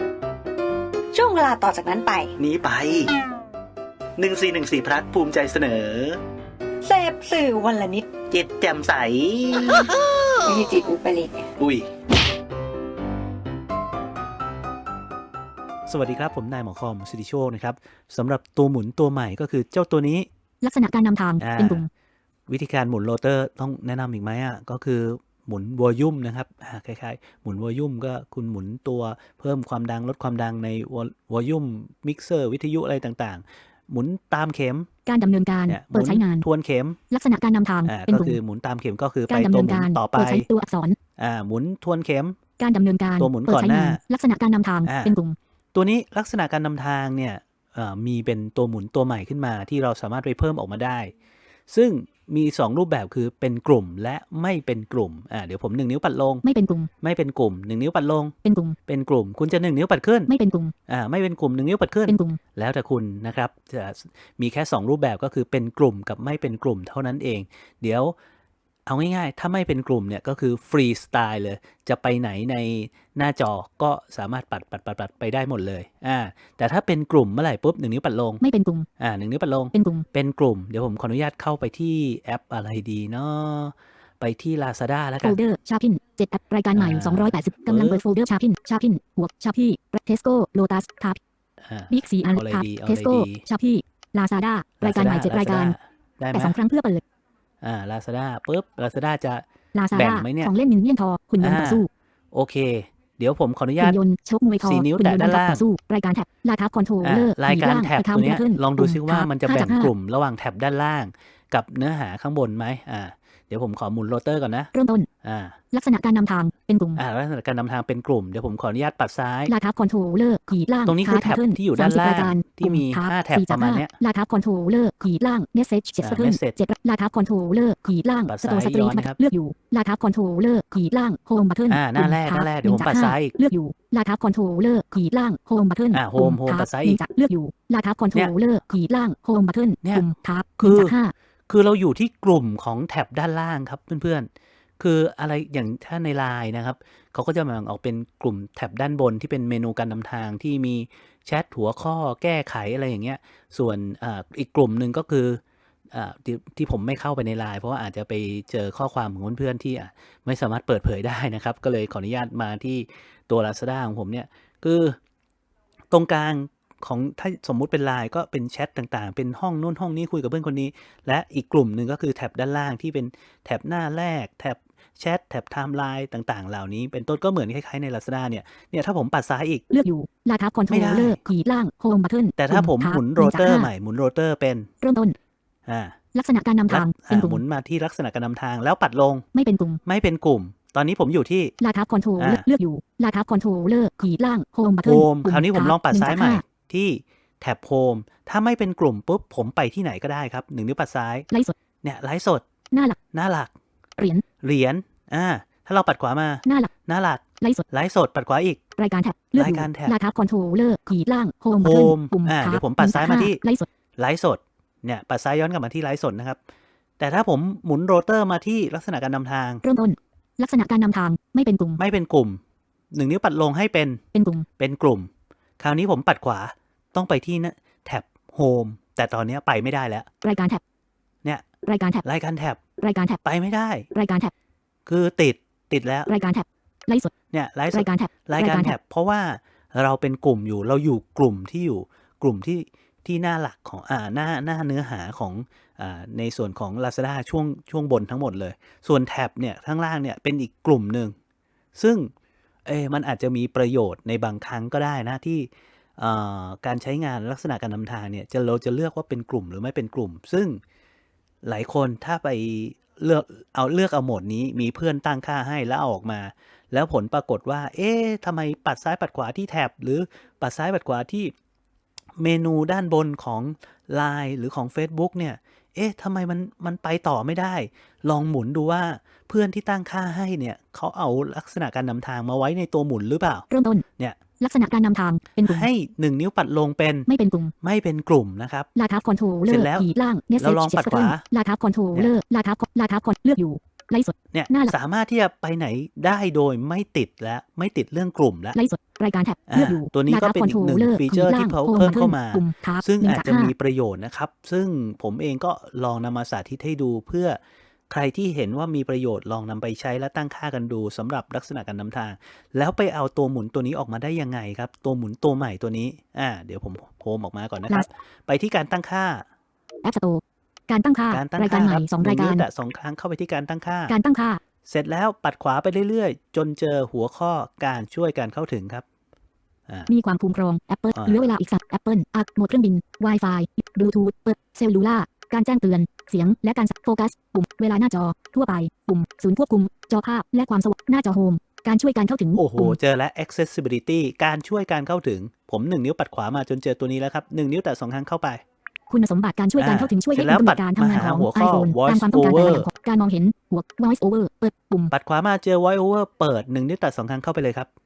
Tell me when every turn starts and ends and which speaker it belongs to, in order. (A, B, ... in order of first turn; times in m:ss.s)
0:01.1-0:02.4 A
0:02.4-0:03.1 B
0:04.2-0:06.2 B
0:06.8-0:08.3 A
0:08.3-0:10.3 B
0:09.6-0:09.9 A
0:10.4-0:11.6 A
0:11.6-0:11.9 B
0:15.9-0:20.3 B
0:20.6-0:21.9 C
0:21.4-0:21.8 B
0:22.5-0:34.9 B
0:35.1-0:36.5 C
0:35.7-0:37.0 B
0:37.1-0:38.4 C
0:37.9-0:40.5 B
0:39.3-0:41.0 C
0:41.2-0:42.4 B
0:42.6-0:45.4 C
0:43.2-0:44.0 B
0:44.8-0:45.2 B
0:45.7-0:51.1 B
0:51.7-0:56.4 B
0:56.4-0:56.9 C
0:57.0-0:58.4 B
0:58.4-0:58.8 C
0:58.9-1:00.3 B
1:00.3-1:00.7 C
1:00.9-1:08.1 B
1:02.1-1:02.4 C
1:08.9-1:18.4 B
1:18.4-1:18.9 C
1:19.0-1:25.4 B
1:19.7-1:20.1 C
1:25.2-1:31.2 C
1:26.8-1:28.0 B
1:31.6-1:33.4 B
1:31.9-1:35.8 C
1:34.8-1:36.6 B
1:36.3-1:37.0 C
1:37.6-1:40.5 B
1:39.7-1:41.9 C
1:41.4-1:44.0 B
1:43.8-1:49.9 C
1:44.6-1:45.7 B
1:47.0-1:54.7 B
1:54.7-1:55.1 C
1:55.2-1:55.6 B
1:55.7-1:57.0 C
1:57.0-1:59.5 B
1:59.5-2:21.1 C
2:00.9-2:03.9 B
2:06.0-2:06.6 B
2:08.3-2:09.2 B
2:11.7-2:13.4 B
2:15.9-2:17.0 B
2:20.6-2:21.0 B
2:21.5-2:35.4 B
2:35.9-2:45.0 B
2:45.9-2:59.6 B
2:59.7-3:03.7 C
3:00.7-3:01.2 B
3:02.4-3:04.7 B
3:04.8-3:05.2 C
3:05.7-3:06.0 B
3:06.1-3:07.4 C
3:06.7-3:09.2 B
3:09.3-3:09.8 C
3:09.8-3:11.5 B
3:11.6-3:16.4 C
3:12.2-3:12.5 B
3:14.8-3:21.3 B
3:21.3-3:21.6 C
3:21.8-3:22.4 B
3:22.7-3:23.0 C
3:23.1-3:23.5 B
3:24.0-3:24.2 C
3:24.4-3:28.6 B
3:26.5-3:26.7 C
3:28.8-3:33.7 C
3:29.4-3:30.0 B
3:31.6-3:33.4 B
3:34.0-3:36.4 B
3:37.0-3:39.6 B
3:39.6-3:41.8 C
3:41.8-3:42.4 B
3:42.9-3:44.0 B
3:44.1-3:44.5 C
3:44.6-3:50.1 B
3:50.2-3:50.6 C
3:51.6-3:52.0 C
3:52.0-3:52.6 B
3:52.8-3:53.2 C
3:53.2-3:53.9 B
3:53.9-3:54.3 C
3:54.9-3:56.1 B
3:56.1-3:57.1 C
3:57.3-4:11.2 B
3:57.7-3:58.8 C
4:11.8-4:12.1 B
4:12.7-4:20.6 B
4:21.4-4:31.3 B
4:32.2-4:43.5 B
4:43.5-4:43.8 C
4:44.4-4:45.7 C
4:45.4-4:47.1 B
4:47.1-4:47.5 C
4:47.6-4:48.7 B
4:48.8-4:54.8 C
4:49.5-4:51.2 B
4:54.3-4:58.6 B
4:58.5-5:03.5 C
4:59.5-5:19.3 B
5:19.8-5:22.4 C
5:21.1-5:24.0 B
5:23.9-5:24.4 C
5:24.6-5:28.8 B
5:29.9-5:42.8 C
5:31.0-5:31.2 B
5:42.4-5:48.4 B
5:48.9-5:54.9 C
5:49.6-5:52.7 B
5:54.9-5:57.7 B